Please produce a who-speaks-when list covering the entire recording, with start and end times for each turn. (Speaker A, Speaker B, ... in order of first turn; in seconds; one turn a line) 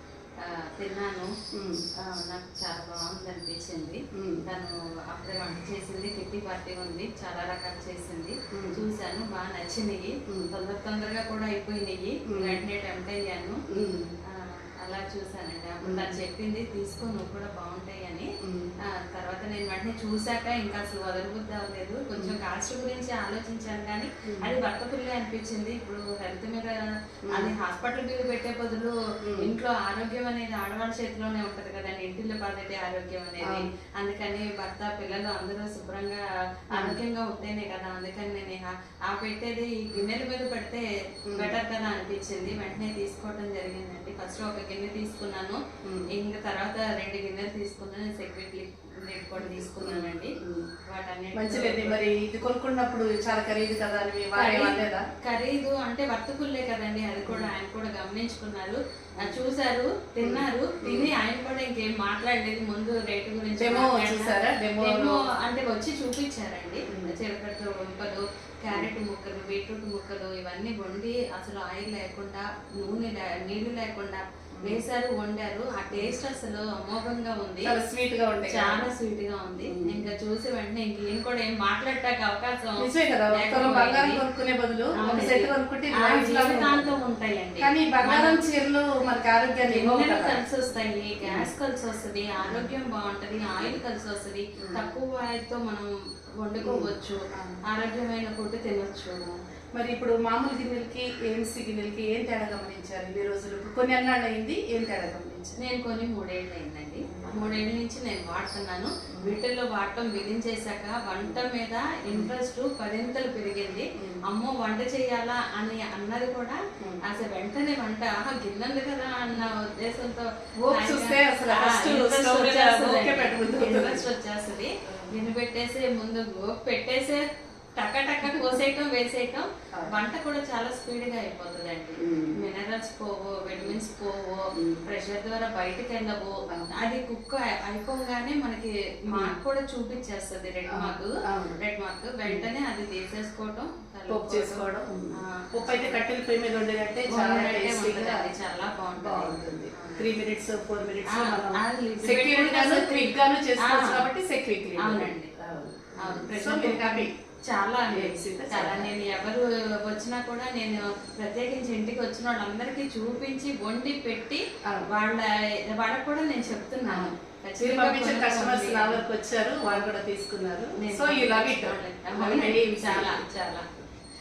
Speaker A: 0.4-1.3
Speaker B: 1.5-1.8
Speaker A: 2.0-13.6
Speaker B: 4.1-4.4
Speaker B: 8.5-8.8
Speaker B: 12.3-12.6
Speaker B: 13.7-14.1
Speaker A: 14.3-18.3
Speaker B: 15.8-16.1
Speaker B: 18.4-18.7
Speaker A: 18.8-45.6
Speaker B: 24.3-24.6
Speaker B: 27.3-27.5
Speaker B: 29.2-29.5
Speaker B: 41.3-41.5
Speaker B: 45.8-46.1
Speaker A: 46.1-50.3
Speaker B: 49.4-50.7
Speaker A: 50.9-52.0
Speaker B: 51.3-55.0
Speaker A: 54.4-77.7
Speaker B: 60.2-61.1
Speaker B: 63.6-65.2
Speaker B: 77.6-78.9
Speaker A: 78.5-84.2
Speaker B: 79.6-80.0
Speaker B: 82.8-86.9
Speaker A: 85.0-88.4
Speaker B: 87.6-90.4
Speaker A: 89.7-99.3
Speaker B: 92.4-92.7
Speaker B: 94.6-94.9
Speaker B: 96.6-97.6
Speaker B: 99.8-105.5
Speaker A: 105.6-127.2
Speaker B: 107.1-107.6
Speaker B: 109.1-109.4
Speaker B: 120.6-124.0
Speaker B: 124.9-125.2
Speaker A: 127.8-144.6
Speaker B: 128.2-128.6
Speaker B: 132.0-132.4
Speaker B: 133.5-133.8
Speaker B: 134.5-134.8
Speaker B: 140.7-141.6
Speaker B: 144.1-148.3
Speaker A: 145.2-146.0
Speaker A: 147.1-150.1
Speaker B: 149.0-157.1
Speaker A: 151.1-154.1
Speaker A: 154.8-155.3
Speaker A: 156.0-169.0
Speaker B: 157.9-159.1
Speaker B: 164.6-164.9
Speaker B: 166.8-173.2
Speaker A: 170.8-173.8